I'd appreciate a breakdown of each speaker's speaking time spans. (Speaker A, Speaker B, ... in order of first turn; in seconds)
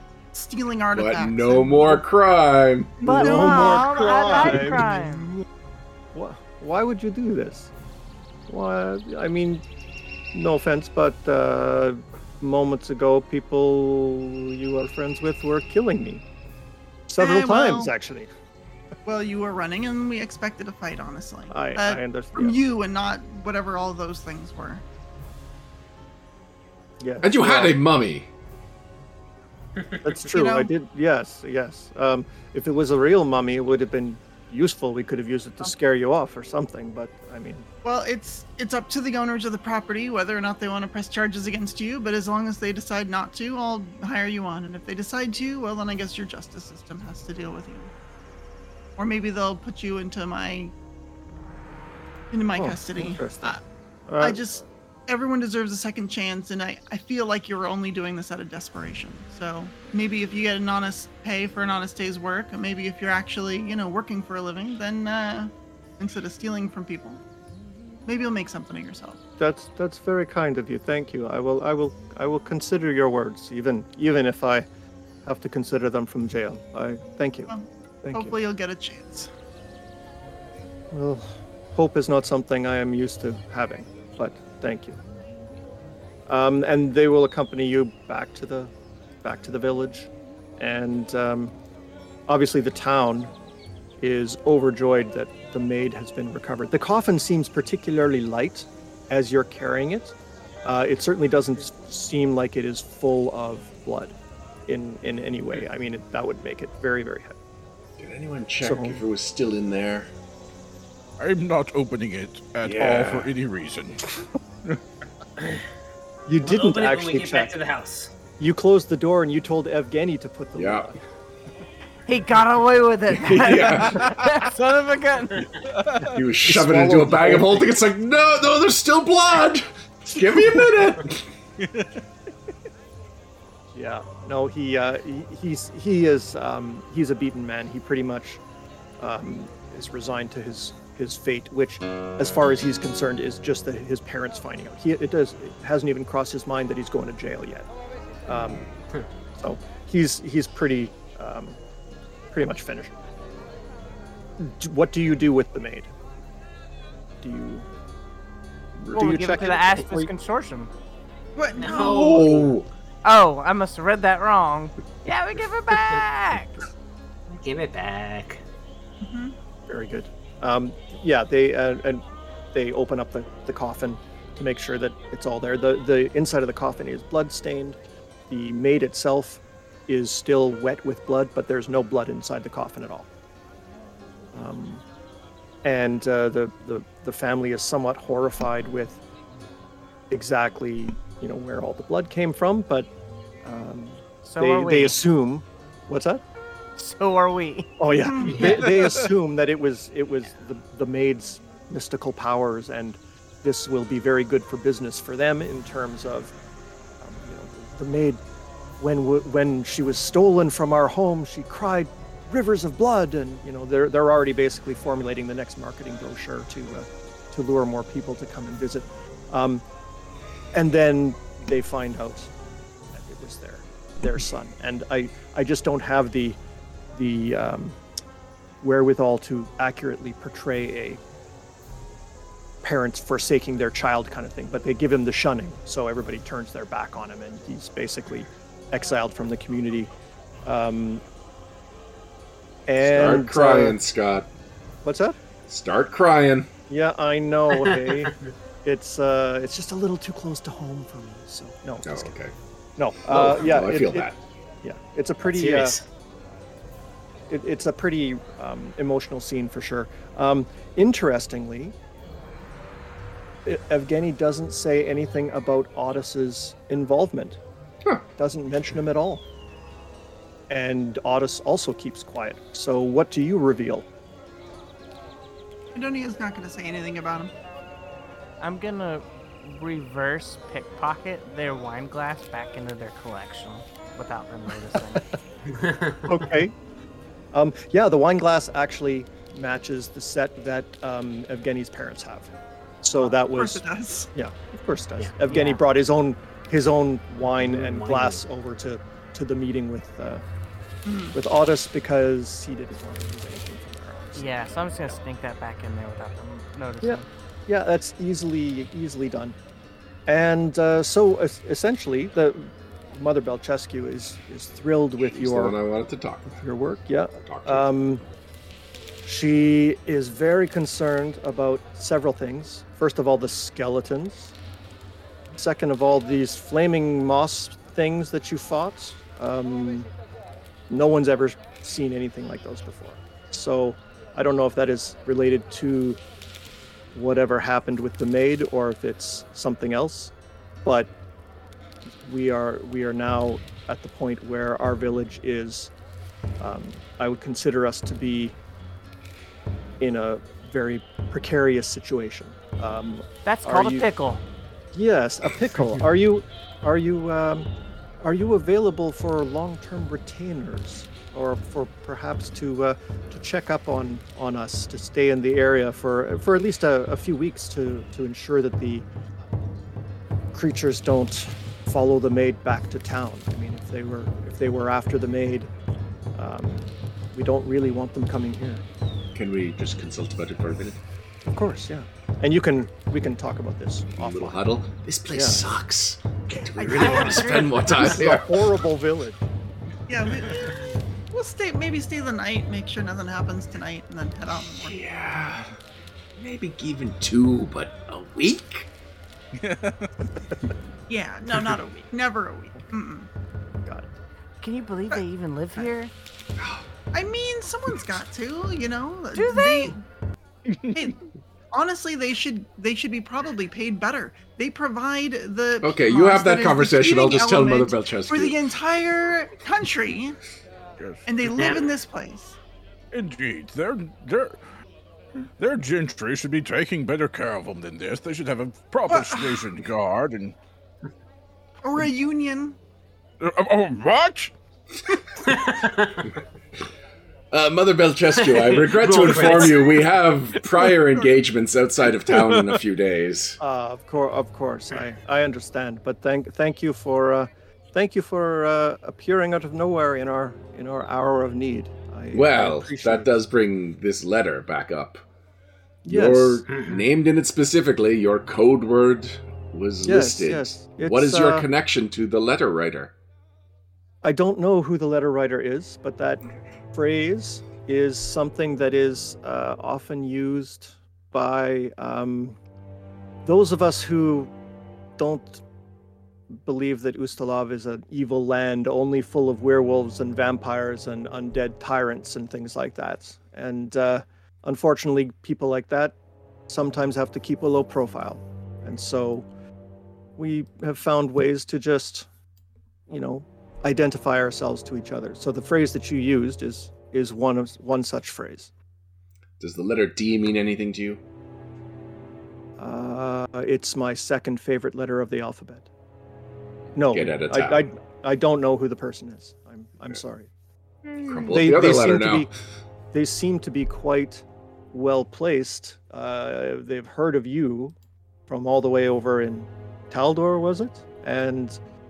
Speaker A: 0.3-2.0, 3.0-4.6, 17.2-17.9, 19.1-24.8, 30.3-30.7, 37.8-47.9, 49.0-50.7, 52.3-53.6, 54.2-67.2, 68.1-69.2, 77.5-79.3, 161.4-162.2, 169.0-169.3, 198.0-198.6, 275.8-277.3, 293.1-294.1, 300.9-301.2, 386.6-388.0, 389.9-394.8, 400.9-403.1, 406.9-409.8, 410.7-420.2, 421.1-422.4, 428.9-429.5, 431.6-432.6
Speaker B: 0.9-3.0, 27.2-28.3, 108.0-110.1, 112.6-113.3, 120.6-120.9, 123.2-124.3, 126.1-131.3, 148.3-148.7, 161.7-162.7, 242.8-244.3, 245.5-246.5, 251.9-252.3, 253.1-254.2, 315.0-316.4, 317.3-317.7, 379.1-380.8, 384.0-388.4, 394.5-395.5, 396.2-398.7, 406.4-406.6, 415.6-418.5, 437.3-443.4, 452.1-455.0, 455.9-462.9, 499.4-501.0, 506.9-507.6, 511.0-512.3
Speaker C: 3.0-5.3, 122.1-125.5, 158.9-160.7, 163.0-166.6, 194.2-195.0, 196.8-197.7, 278.4-285.1, 295.3-295.6, 304.2-307.1, 353.3-354.2, 404.4-405.9, 409.1-409.7
Speaker D: 3.0-5.4, 6.1-7.7, 8.5-9.6, 10.3-16.2, 17.1-18.3, 21.5-22.6, 27.0-27.8, 30.0-37.7, 52.6-53.6, 54.1-54.6, 69.4-74.7, 75.2-78.4, 80.9-85.0, 86.3-91.5, 92.3-93.3, 94.0-104.2, 104.7-107.4, 108.6-109.0, 116.3-117.5, 118.4-121.0, 126.4-127.7, 133.7-138.4, 139.0-147.7, 148.3-148.6, 149.4-151.6, 152.3-152.9, 154.4-155.9, 157.2-157.7, 158.8-160.1, 169.7-177.8, 178.3-183.1, 184.3-184.8, 185.6-189.0, 190.1-192.9, 193.4-196.2, 197.8-206.3, 207.0-208.2, 208.8-219.7, 220.5-222.3, 222.9-226.4, 226.9-227.8, 228.6-231.0, 232.6-239.9, 240.4-241.0, 242.7-243.8, 244.8-245.2, 246.7-252.2, 252.8-254.1, 254.6-255.8, 257.3-261.8, 263.4-267.4, 268.2-269.2, 270.5-273.9, 286.0-286.6, 287.3-300.2, 301.1-305.0, 306.8-309.4, 310.1-315.6, 316.3-318.0, 319.0-324.4, 325.3-329.9, 330.7-336.0, 336.9-340.1, 340.6-340.9, 341.9-345.7, 346.4-348.4, 349.8-353.9, 354.7-368.9, 370.3-375.5, 376.1-378.6, 381.2-384.4, 385.1-385.4, 387.8-389.2, 443.4-453.1, 455.9-456.5, 459.8-461.5, 464.0-472.4, 473.2-474.3, 475.0-475.4, 476.3-485.9, 486.5-489.3, 490.2-492.1, 492.9-498.5, 502.6-505.7, 506.8-510.3, 511.3-512.3, 512.9-517.8, 518.3-521.6
Speaker E: 111.2-114.0, 125.7-126.2, 131.6-131.9, 399.4-400.1, 410.5-410.9, 422.9-424.4, 425.4-430.4, 433.2-434.3, 442.1-442.6
Speaker F: 116.4-118.1, 161.6-162.6, 167.3-168.4, 247.6-248.1, 255.3-255.8, 285.5-286.1, 297.3-298.2, 421.4-421.6, 435.2-436.1, 438.1-439.8, 456.5-456.8